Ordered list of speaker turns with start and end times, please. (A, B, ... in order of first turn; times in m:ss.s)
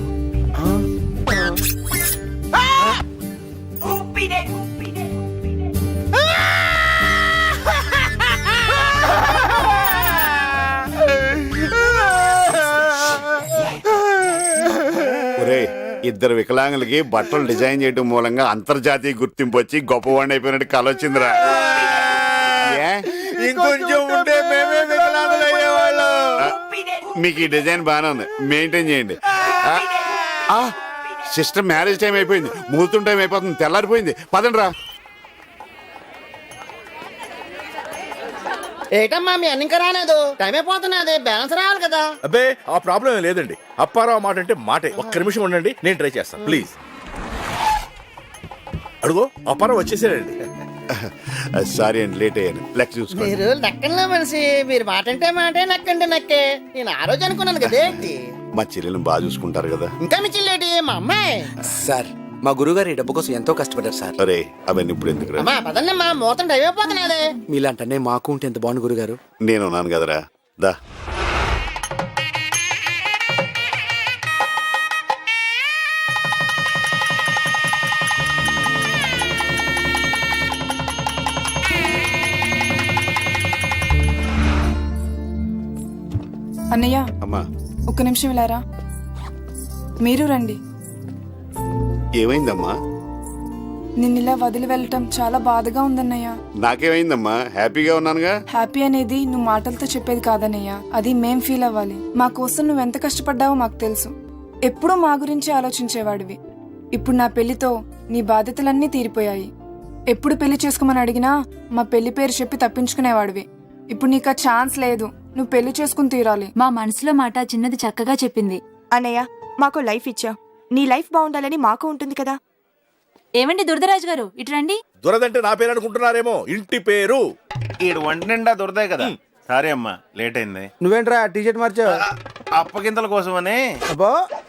0:00.6-0:00.8 A
0:15.4-0:21.6 B
0:22.6-0:23.1 B
0:23.4-0:25.7 C
0:27.2-0:30.0 B
0:30.5-0:30.8 B
0:31.3-0:34.7 B
0:39.0-0:42.1 D
0:42.2-0:46.7 C
0:49.0-0:50.4 C
0:50.9-0:53.3 B
0:53.1-0:58.2 D
0:58.6-0:59.9 B
1:00.0-1:01.5 D
1:01.6-1:04.2 A
1:04.2-1:05.5 B
1:05.4-1:07.3 D
1:07.5-1:09.2 A
1:09.4-1:10.8 B
1:26.7-1:27.1 E
1:27.2-1:27.5 B
1:27.9-1:28.6 E
1:30.0-1:30.6 E
1:32.2-1:32.8 B
1:34.0-1:36.4 E
1:36.6-1:38.3 B
1:38.5-1:44.1 E
1:44.7-1:46.4 E
1:47.0-1:49.5 E
1:50.1-1:56.5 E
1:56.6-1:58.6 F
1:58.9-2:02.4 G
2:03.4-2:04.8 F
2:05.0-2:07.2 C
2:07.8-2:10.7 H
2:10.8-2:12.0 A
2:12.6-2:13.8 H
2:13.9-2:14.2 A